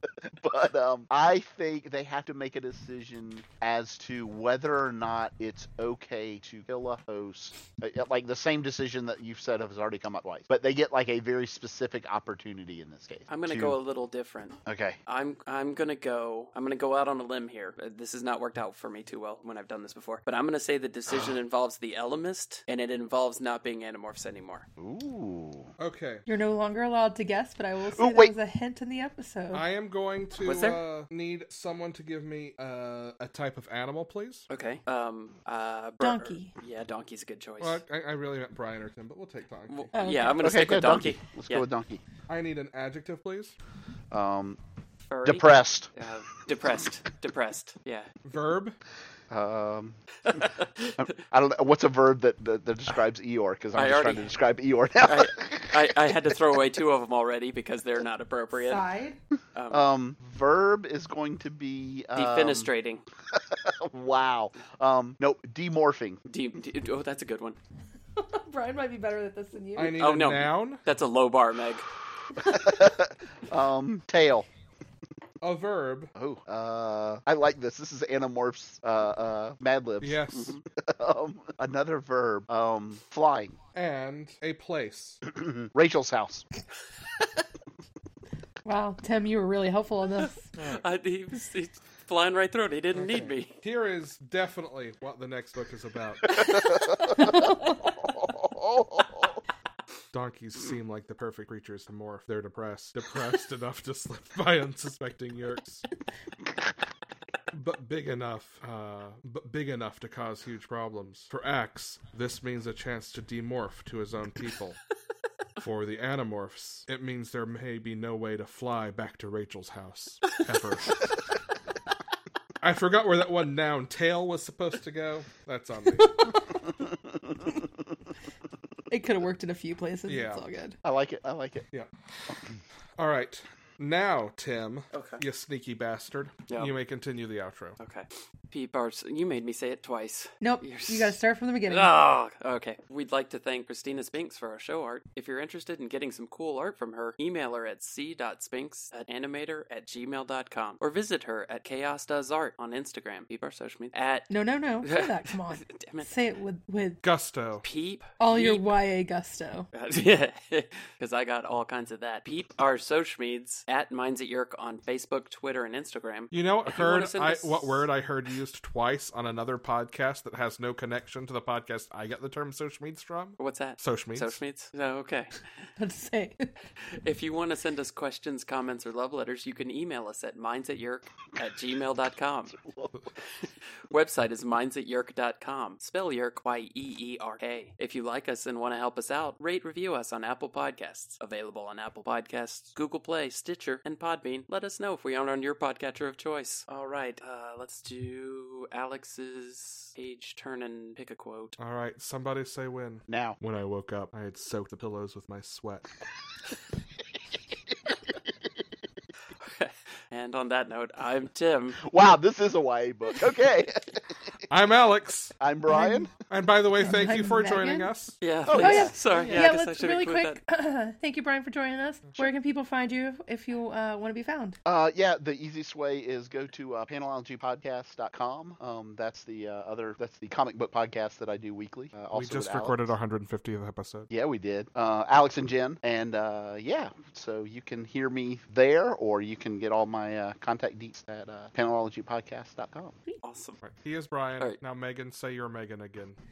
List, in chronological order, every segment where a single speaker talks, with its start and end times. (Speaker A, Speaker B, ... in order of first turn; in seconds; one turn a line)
Speaker A: 0.2-13.8
Speaker B: 13.3-24.6
Speaker A: 14.7-15.0
Speaker A: 24.8-25.7
Speaker C: 25.8-26.2
Speaker D: 26.3-29.6
Speaker A: 27.9-28.3
Speaker C: 29.5-34.4
Speaker B: 30.4-30.8
Speaker B: 34.5-37.8
Speaker D: 36.0-36.5
Speaker C: 37.6-39.9
Speaker B: 39.7-41.7
Speaker D: 39.9-40.5
Speaker A: 40.4-42.0
Speaker C: 42.3-43.5
Speaker A: 44.1-44.6
Speaker B: 45.1-48.1
Speaker A: 45.2-45.9
Speaker C: 48.2-48.8
Speaker A: 49.3-56.0
Speaker B: 50.3-51.1
Speaker B: 53.7-54.3
Speaker B: 55.0-58.8
Speaker D: 58.5-59.2
Speaker B: 59.5-59.9
Speaker A: 59.7-62.7
Speaker B: 62.1-63.0
Speaker A: 63.3-66.2
Speaker B: 66.3-67.6
Speaker D: 68.2-70.0
Speaker C: 69.8-70.8
Speaker B: 70.0-71.9
Speaker A: 72.4-74.5
Speaker C: 75.4-76.1
Speaker A: 76.1-83.5
Speaker C: 80.0-80.6
Speaker C: 83.7-85.2
Speaker A: 85.2-86.5
Speaker D: 88.6-90.5
Speaker B: 90.6-93.6
Speaker C: 92.9-96.4
Speaker A: 96.4-99.2
Speaker D: 97.2-97.7
Speaker C: 100.1-105.9
Speaker C: 107.5-114.8
Speaker C: 115.6-121.2
Speaker C: 122.6-126.4
Speaker D: 126.0-126.4
Speaker A: 126.9-127.6
Speaker D: 128.9-130.8
Speaker C: 130.1-130.4
Speaker A: 130.8-131.7
Speaker A: 132.3-132.6
Speaker C: 133.0-137.8
Speaker B: 134.9-135.2
Speaker B: 136.5-136.7
Speaker B: 137.8-141.2
Speaker D: 140.4-141.9
Speaker B: 141.7-154.3
Speaker D: 154.3-157.0
Speaker B: 154.8-156.1
Speaker C: 157.0-157.7
Speaker B: 157.6-158.7
Speaker D: 158.2-159.7
Speaker B: 159.7-167.9
Speaker C: 166.3-174.4
Speaker B: 173.4-175.5
Speaker D: 175.8-176.5
Speaker B: 176.9-182.6
Speaker A: 182.5-183.1
Speaker B: 183.3-201.6
Speaker C: 201.6-205.8
Speaker A: 203.1-203.4
Speaker B: 209.4-211.8
Speaker A: 211.8-214.4
Speaker C: 214.5-215.3
Speaker A: 215.4-216.1
Speaker D: 215.7-216.1
Speaker C: 216.3-218.2
Speaker D: 216.8-217.9
Speaker B: 218.2-220.4
Speaker A: 218.4-219.4
Speaker D: 218.5-224.6
Speaker A: 224.6-232.9
Speaker C: 232.1-234.1
Speaker A: 234.1-242.9
Speaker B: 243.2-243.6
Speaker C: 243.6-246.2